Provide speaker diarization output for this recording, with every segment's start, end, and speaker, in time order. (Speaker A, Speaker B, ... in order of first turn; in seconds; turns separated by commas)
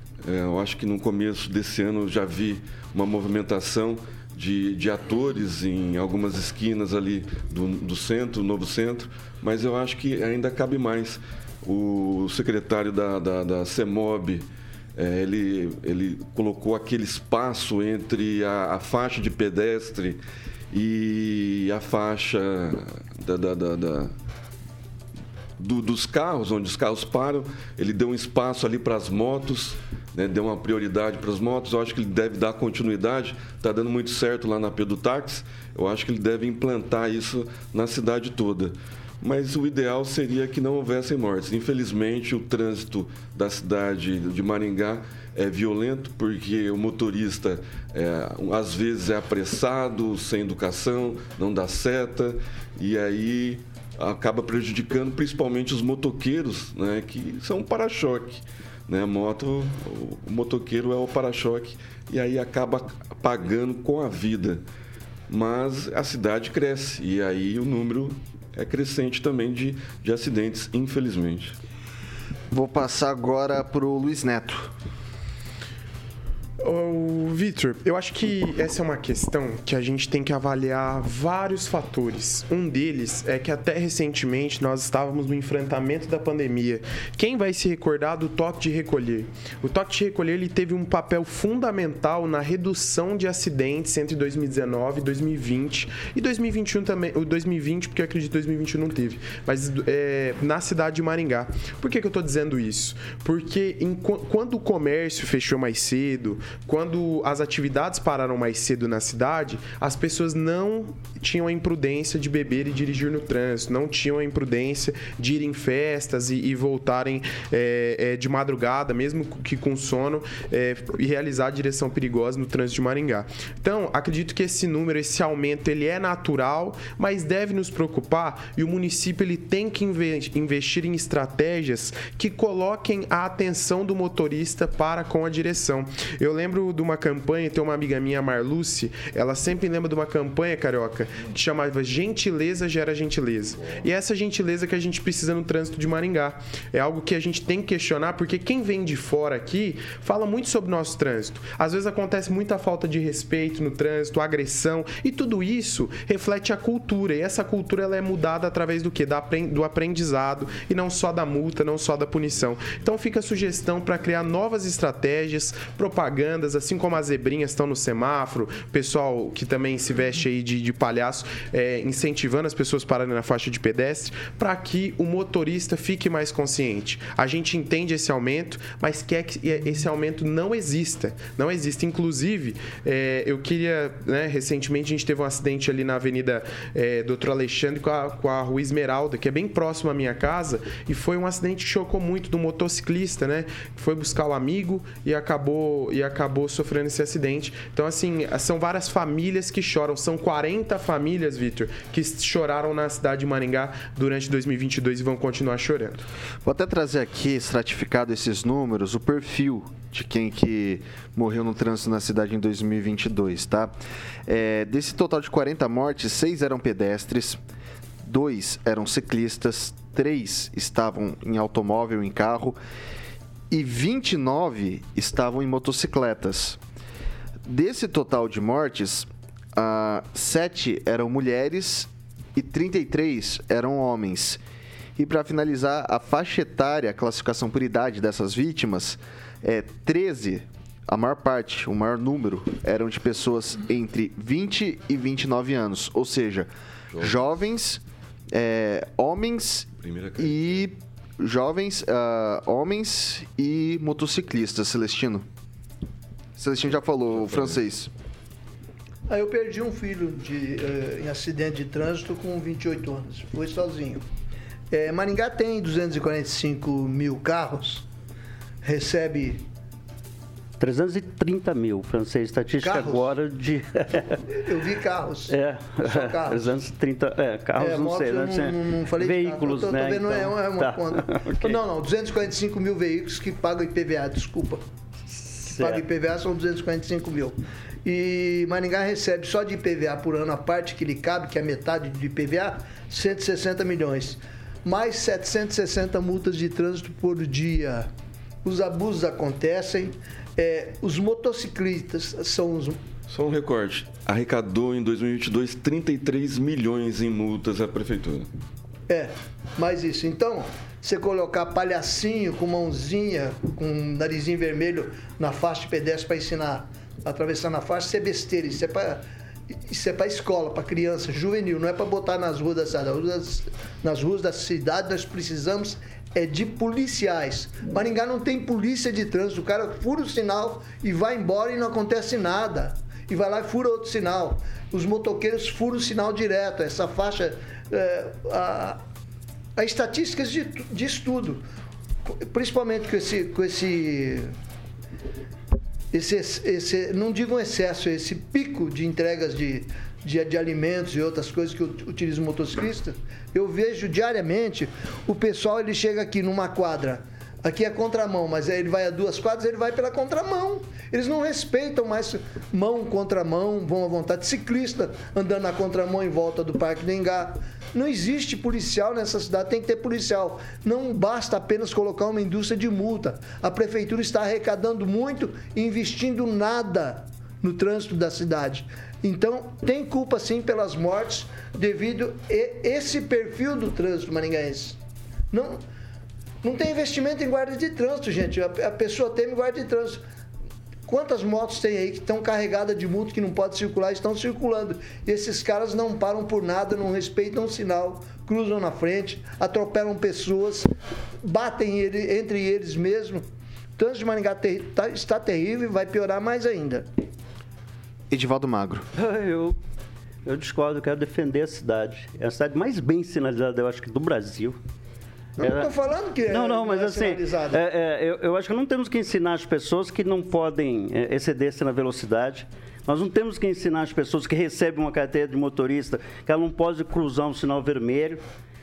Speaker A: 0.2-20.2, Speaker A: 20.7-24.1, Speaker A: 25.6-64.6, Speaker A: 65.3-71.5, Speaker B: 72.5-74.7, Speaker C: 76.6-206.0, Speaker B: 206.4-213.7, Speaker B: 214.3-217.4, Speaker B: 218.0-222.6, Speaker B: 223.5-226.6, Speaker B: 227.4-234.4, Speaker B: 235.0-255.2, Speaker A: 249.8-250.7, Speaker B: 256.4-257.9, Speaker A: 257.1-257.6, Speaker D: 259.1-264.0, Speaker D: 264.7-267.8, Speaker D: 268.6-269.4, Speaker E: 270.6-274.2, Speaker D: 272.6-273.1, Speaker D: 274.3-276.5, Speaker E: 275.3-281.6, Speaker D: 277.6-284.6, Speaker E: 285.1-285.8, Speaker D: 285.5-297.9, Speaker D: 298.4-302.8, Speaker A: 303.1-308.3, Speaker D: 308.9-338.8, Speaker D: 339.6-341.4, Speaker D: 342.1-344.3, Speaker D: 345.9-384.8, Speaker D: 385.3-385.6, Speaker D: 386.4-390.0, Speaker D: 390.9-400.7, Speaker D: 401.2-403.2, Speaker D: 403.8-406.9, Speaker B: 408.1-408.9, Speaker E: 408.9-409.6, Speaker E: 410.2-414.6, Speaker D: 415.4-417.6, Speaker E: 415.4-415.7, Speaker E: 416.3-428.2